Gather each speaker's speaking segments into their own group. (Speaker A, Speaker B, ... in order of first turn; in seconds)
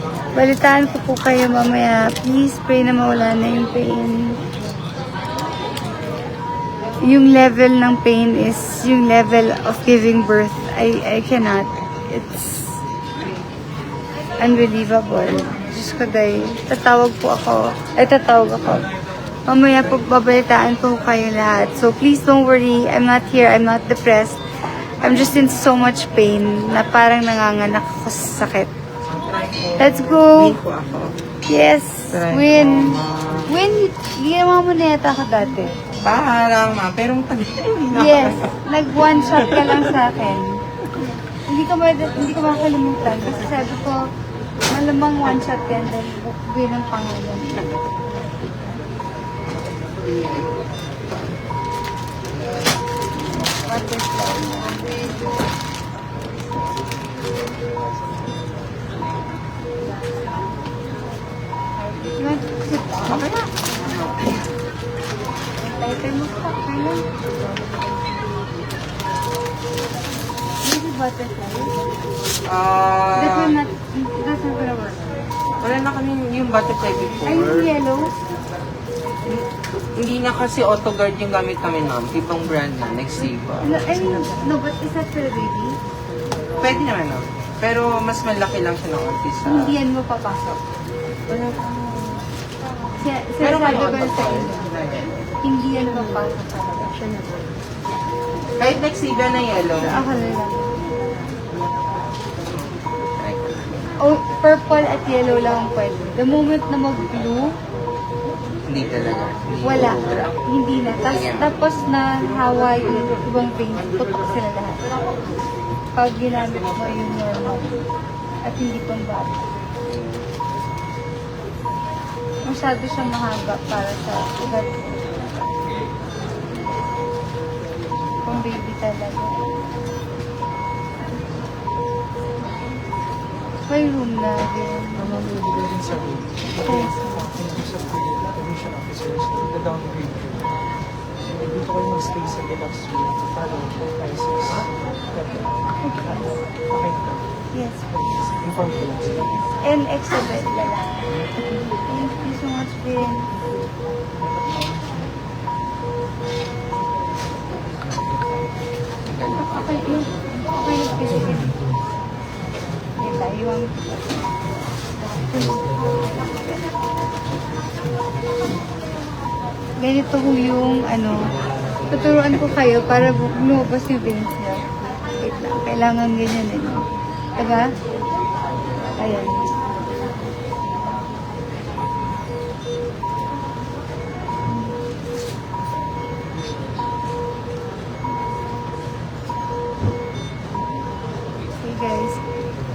Speaker A: 0.3-4.4, 7.0-12.8, 14.4-18.9, 19.5-24.4, 25.0-28.7, 29.8-30.6, 31.5-35.7, 37.9-40.6, 41.5-44.0, 44.7-47.7, 53.5-55.2, 62.0-63.2, 65.6-67.0, 70.6-71.8, 73.1-75.0, 77.3-78.1, 83.6-85.7, 89.4-90.6, 93.0-94.7, 95.4-97.0, 99.8-100.8, 104.0-107.5, 109.6-114.8, 116.0-117.8, 118.5-119.4, 122.5-124.9, 128.2-129.4, 133.7-135.2, 136.6-137.2, 145.9-146.3, 147.5-147.9, 149.6-151.0, 151.9-153.3, 159.4-161.6, 163.0-164.0, 165.3-165.7, 169.8-171.3, 171.9-177.7, 179.0-179.5, 191.6-192.2
Speaker B: 29.2-31.1, 32.1-33.4, 36.0-38.4, 63.1-64.3, 72.5-73.5, 75.6-77.6, 80.0-83.7, 86.6-89.6, 93.5-95.1, 98.6-100.0, 103.2-103.8, 108.7-110.3, 111.2-111.5
Speaker C: 135.0-140.5, 141.3-147.3, 147.9-149.3